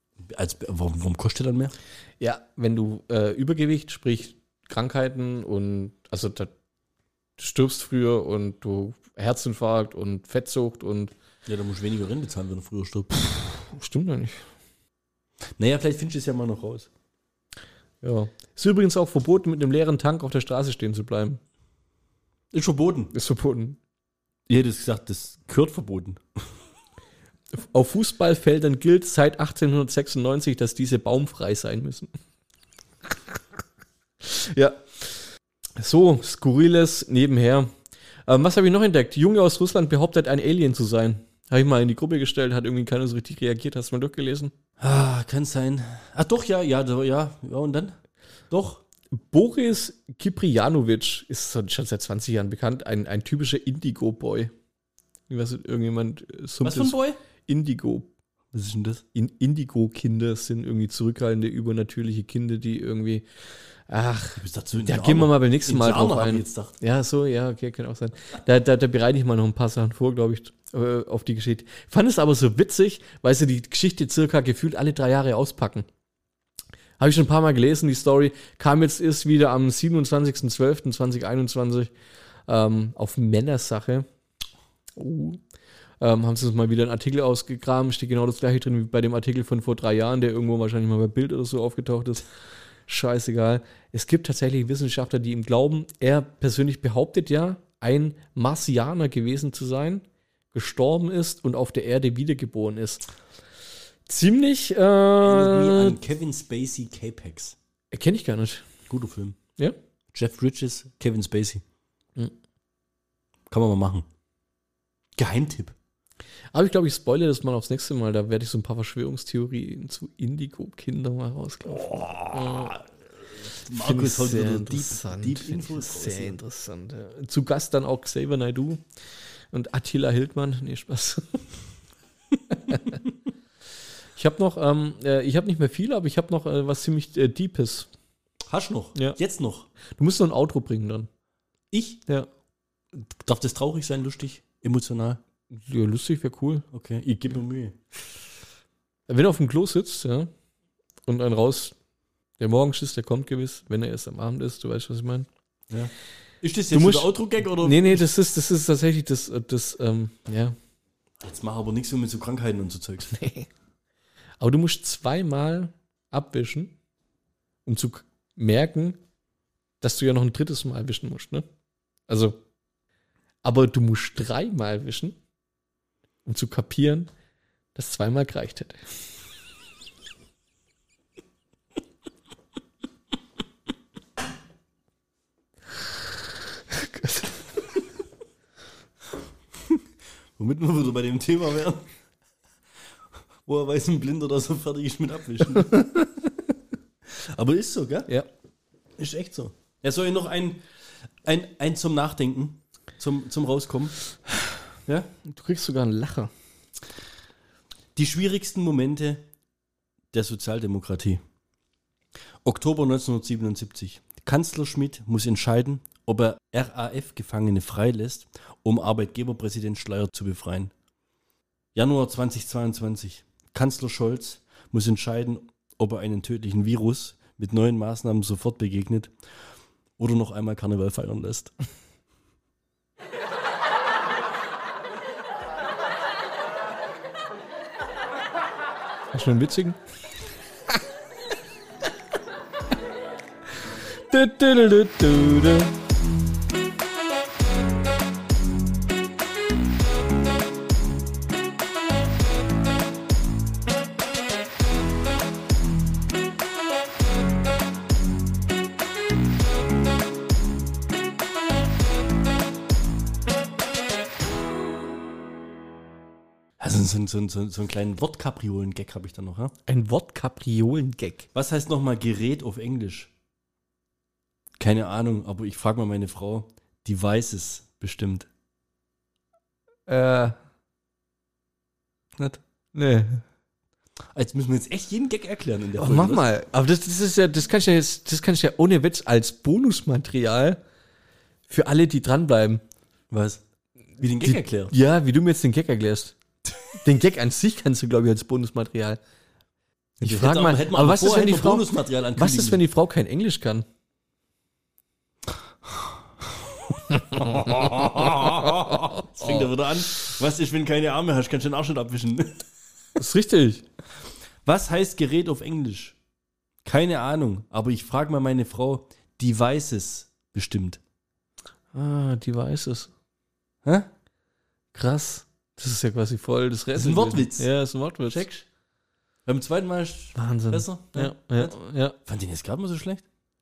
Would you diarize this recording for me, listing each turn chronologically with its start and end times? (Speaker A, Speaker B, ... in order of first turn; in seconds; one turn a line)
Speaker A: 0.2-1.8
Speaker B: 2.2-6.5
Speaker B: 7.4-11.1
Speaker A: 11.5-13.1
Speaker B: 13.2-14.5
Speaker A: 15.6-16.9
Speaker B: 18.0-21.4
Speaker A: 22.5-23.1
Speaker B: 23.1-23.8
Speaker A: 24.5-26.6
Speaker B: 27.6-32.1
Speaker B: 34.2-35.2
Speaker B: 35.8-37.7
Speaker B: 38.3-44.5
Speaker A: 44.8-48.0
Speaker A: 48.5-48.8
Speaker B: 49.1-54.5
Speaker B: 55.3-58.1
Speaker A: 56.6-57.2
Speaker A: 58.5-59.0
Speaker B: 59.1-63.3
Speaker B: 63.9-75.9
Speaker A: 64.4-66.8
Speaker B: 77.0-81.9
Speaker B: 82.5-84.1
Speaker B: 85.0-85.4
Speaker B: 86.0-92.3
Speaker B: 92.9-103.0
Speaker B: 104.1-106.0
Speaker A: 105.2-107.6
Speaker B: 107.9-108.7
Speaker A: 108.9-109.4
Speaker A: 110.1-111.6
Speaker A: 113.5-114.1
Speaker A: 115.2-115.8
Speaker B: 116.5-122.8
Speaker A: 121.7-126.4
Speaker B: 123.7-128.8
Speaker B: 129.5-131.5
Speaker B: 132.7-132.9
Speaker B: 134.2-137.9
Speaker A: 138.5-139.7
Speaker B: 140.0-141.1
Speaker A: 141.7-142.0
Speaker A: 142.9-145.2
Speaker B: 145.5-146.7
Speaker A: 146.7-147.8
Speaker B: 149.1-150.3
Speaker B: 151.1-151.8
Speaker B: 152.4-155.3
Speaker A: 155.7-158.1
Speaker B: 156.7-160.6
Speaker A: 161.2-163.2
Speaker B: 163.1-163.5
Speaker B: 164.4-166.8
Speaker B: 167.7-169.0
Speaker B: 169.8-171.5
Speaker B: 172.1-172.4
Speaker B: 173.4-175.2
Speaker B: 176.3-177.1
Speaker B: 177.8-178.9
Speaker B: 186.7-187.4
Speaker A: 190.4-191.9
Speaker A: 193.5-195.8
Speaker B: 195.7-196.1
Speaker A: 197.1-198.1
Speaker A: 199.0-200.7
Speaker A: 201.2-204.0
Speaker B: 205.2-206.3
Speaker A: 207.9-209.2
Speaker A: 210.1-211.2
Speaker A: 212.4-220.7
Speaker A: 221.8-229.1
Speaker A: 230.0-231.5
Speaker B: 239.1-239.8
Speaker B: 244.1-245.7
Speaker A: 266.6-269.5
Speaker B: 269.7-271.3
Speaker A: 271.3-273.1
Speaker A: 274.6-278.3
Speaker B: 279.9-280.4
Speaker A: 282.2-282.4
Speaker B: 282.7-283.2
Speaker A: 284.1-286.3
Speaker B: 285.8-290.6
Speaker B: 291.5-292.6
Speaker A: 293.1-293.4
Speaker A: 294.0-294.7
Speaker B: 294.0-296.2
Speaker B: 296.8-299.0
Speaker B: 300.0-303.7
Speaker A: 300.0-302.6
Speaker A: 305.7-306.3
Speaker A: 307.1-312.5
Speaker B: 307.2-308.3
Speaker B: 313.0-313.6
Speaker A: 314.4-316.0
Speaker A: 316.6-320.8
Speaker B: 321.7-322.9
Speaker A: 323.6-323.9
Speaker B: 324.7-328.2
Speaker A: 326.8-327.5
Speaker A: 328.1-328.4
Speaker A: 329.2-333.0
Speaker B: 330.1-332.0